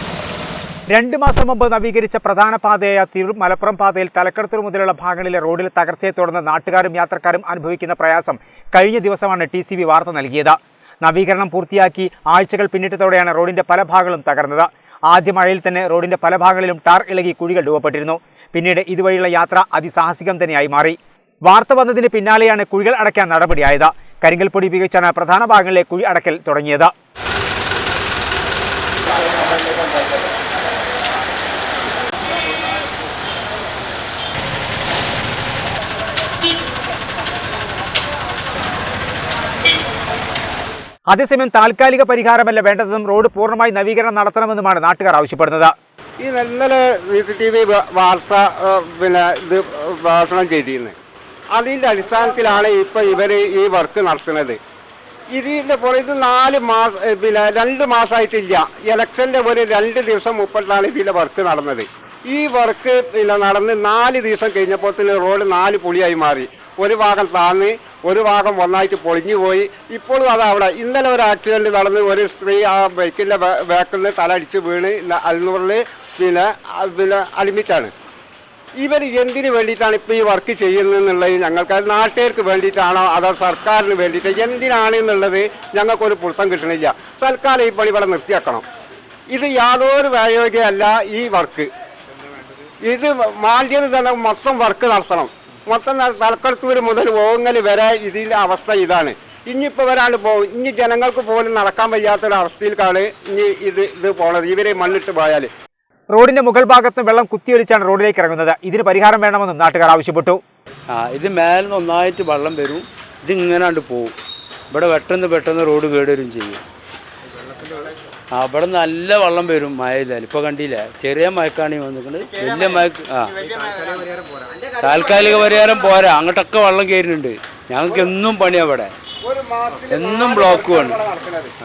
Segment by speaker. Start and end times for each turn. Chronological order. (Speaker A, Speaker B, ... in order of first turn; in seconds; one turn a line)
Speaker A: 0.9-26.9
Speaker A: 41.1-45.7
Speaker B: 46.2-51.0
Speaker B: 51.5-54.6
Speaker B: 55.3-77.9
Speaker B: 78.8-88.6
Speaker B: 89.3-91.7
Speaker B: 92.8-105.5
Speaker A: 106.1-110.4
Speaker C: 110.9-114.1
Speaker C: 114.7-116.6
Speaker C: 118.3-123.3
Speaker B: 122.3-124.4
Speaker C: 124.7-128.9
Speaker B: 129.2-131.5
Speaker C: 129.9-131.0